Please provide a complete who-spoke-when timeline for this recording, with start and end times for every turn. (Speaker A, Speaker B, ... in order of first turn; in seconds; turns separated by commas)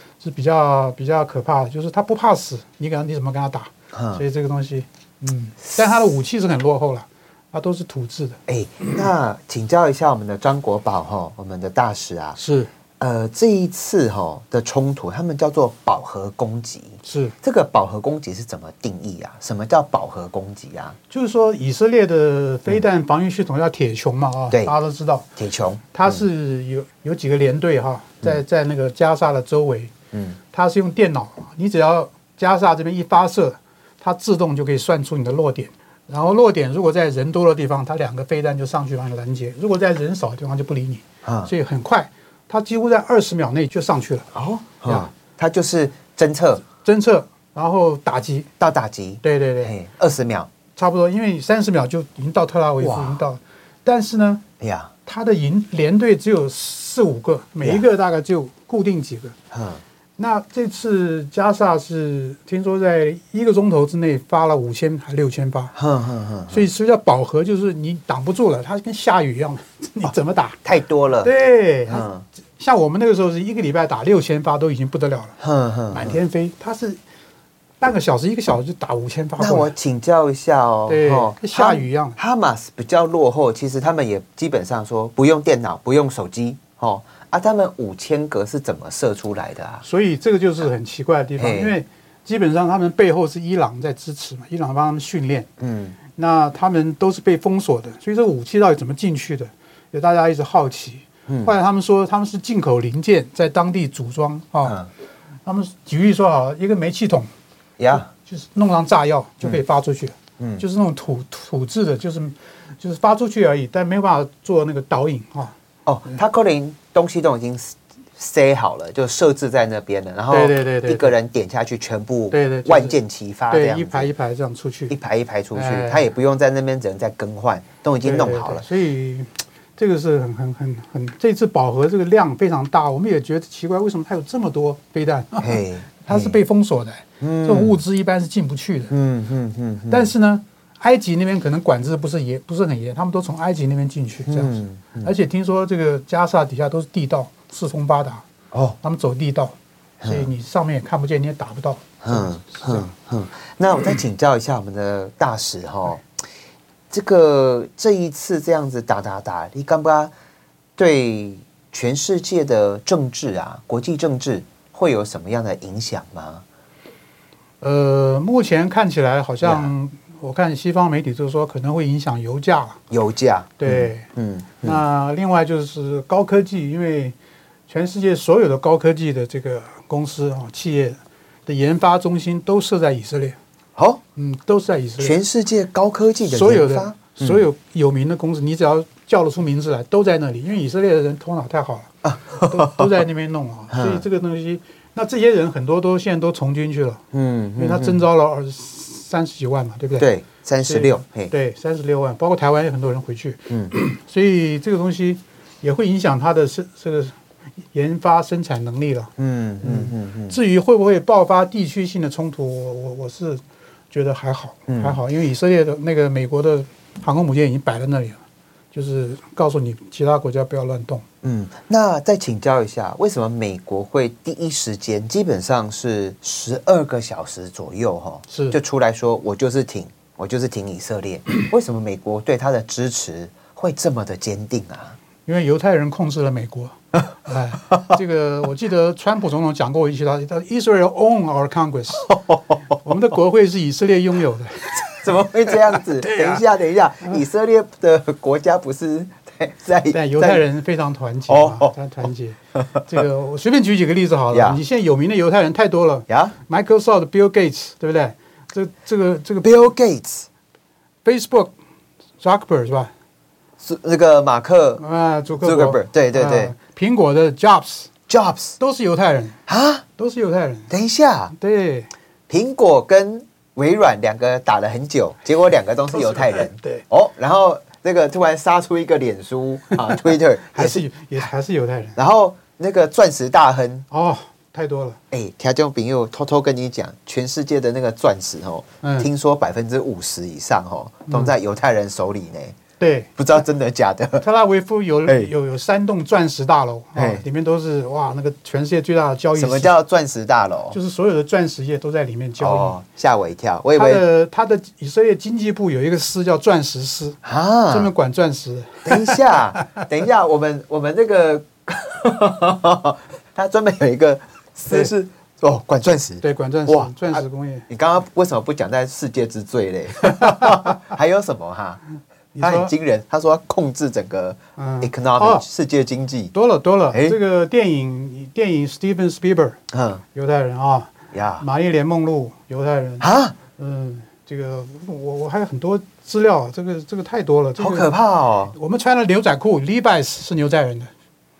Speaker A: 0.2-8.4, Speaker B: 3.9-4.2, Speaker B: 8.5-12.4, Speaker A: 12.4-12.7, Speaker B: 13.0-21.0, Speaker A: 17.0-17.3, Speaker A: 21.1-25.3, Speaker B: 25.4-26.2, Speaker A: 25.9-29.9, Speaker B: 30.1-30.4, Speaker A: 30.5-44.3, Speaker B: 41.2-41.5, Speaker B: 44.3-46.6, Speaker A: 46.8-48.5, Speaker B: 48.6-50.5, Speaker A: 49.2-49.7, Speaker A: 50.8-54.4, Speaker B: 52.8-53.2, Speaker B: 54.6-54.9, Speaker A: 55.0-59.4, Speaker B: 59.5-59.8, Speaker A: 60.2-65.7, Speaker B: 65.7-66.7, Speaker A: 66.5-70.6, Speaker B: 70.6-71.3, Speaker A: 71.2-72.1, Speaker B: 71.9-72.2, Speaker A: 72.6-75.3, Speaker B: 75.4-76.2, Speaker A: 75.9-77.0, Speaker A: 77.8-79.7, Speaker B: 79.4-89.8, Speaker A: 80.9-82.2, Speaker A: 89.8-95.5, Speaker B: 91.4-91.8, Speaker B: 95.6-96.0, Speaker A: 96.1-104.8, Speaker B: 101.3-101.5, Speaker A: 105.4-107.3, Speaker B: 107.8-108.1, Speaker A: 107.9-115.5, Speaker B: 110.4-110.6, Speaker B: 115.8-124.1, Speaker A: 120.3-121.1, Speaker A: 122.3-123.0, Speaker A: 123.5-124.9, Speaker B: 124.9-128.6, Speaker A: 125.5-126.1, Speaker A: 128.0-138.9, Speaker B: 135.4-136.4, Speaker B: 137.2-137.8, Speaker B: 138.9-140.1, Speaker A: 139.9-148.2, Speaker B: 144.3-145.1, Speaker A: 148.8-152.8, Speaker B: 150.0-150.3, Speaker B: 152.0-156.0, Speaker B: 156.9-160.1, Speaker B: 160.8-166.4, Speaker A: 167.6-172.8, Speaker B: 169.4-169.7, Speaker B: 172.9-174.8, Speaker A: 173.6-174.1, Speaker A: 174.6-177.2, Speaker A: 177.7-183.4, Speaker B: 183.8-184.0, Speaker A: 184.2-185.2, Speaker B: 185.0-187.4, Speaker A: 186.2-197.0, Speaker B: 192.0-192.9, Speaker B: 193.7-194.0, Speaker B: 197.1-198.0, Speaker A: 197.6-200.1, Speaker B: 200.0-201.3, Speaker A: 200.6-207.2, Speaker B: 203.5-203.7, Speaker A: 207.7-209.1, Speaker B: 209.2-210.4, Speaker A: 209.6-218.2, Speaker B: 214.7-215.0, Speaker A: 218.7-221.0, Speaker B: 221.2-235.0, Speaker A: 228.3-228.6, Speaker A: 235.2-242.1, Speaker B: 242.1-242.6, Speaker A: 242.8-246.4, Speaker B: 244.8-250.4, Speaker A: 249.9-259.5, Speaker B: 251.3-251.7, Speaker B: 252.6-252.8, Speaker B: 254.3-254.6, Speaker B: 256.1-256.4, Speaker B: 259.4-260.3, Speaker A: 261.0-261.5, Speaker A: 262.2-262.9, Speaker B: 263.6-264.8, Speaker A: 264.8-267.9, Speaker B: 265.4-266.5, Speaker B: 268.1-268.6, Speaker A: 268.6-269.4, Speaker B: 269.5-269.8, Speaker A: 270.0-270.7, Speaker B: 270.7-271.3, Speaker A: 271.3-271.9, Speaker B: 272.3-280.9, Speaker A: 275.9-276.8, Speaker A: 279.9-282.0, Speaker B: 282.0-283.8, Speaker A: 283.9-285.0, Speaker B: 285.1-292.6, Speaker A: 288.8-289.1, Speaker A: 291.1-291.3, Speaker A: 292.8-293.1, Speaker B: 293.2-294.2, Speaker A: 294.2-299.7, Speaker B: 296.9-297.2, Speaker B: 299.4-300.8, Speaker A: 300.7-302.8, Speaker B: 302.4-304.1, Speaker A: 303.8-307.2, Speaker B: 307.2-307.9, Speaker A: 307.7-309.6, Speaker B: 308.8-321.8, Speaker A: 316.2-317.6, Speaker A: 320.0-320.8, Speaker A: 322.3-322.7, Speaker B: 322.4-326.3, Speaker A: 324.6-325.4, Speaker A: 326.3-329.6, Speaker B: 326.9-327.2, Speaker B: 329.7-330.0, Speaker A: 330.1-333.1, Speaker B: 331.1-331.4, Speaker B: 333.0-333.4, Speaker A: 333.6-337.9, Speaker B: 337.6-338.6, Speaker A: 338.5-340.9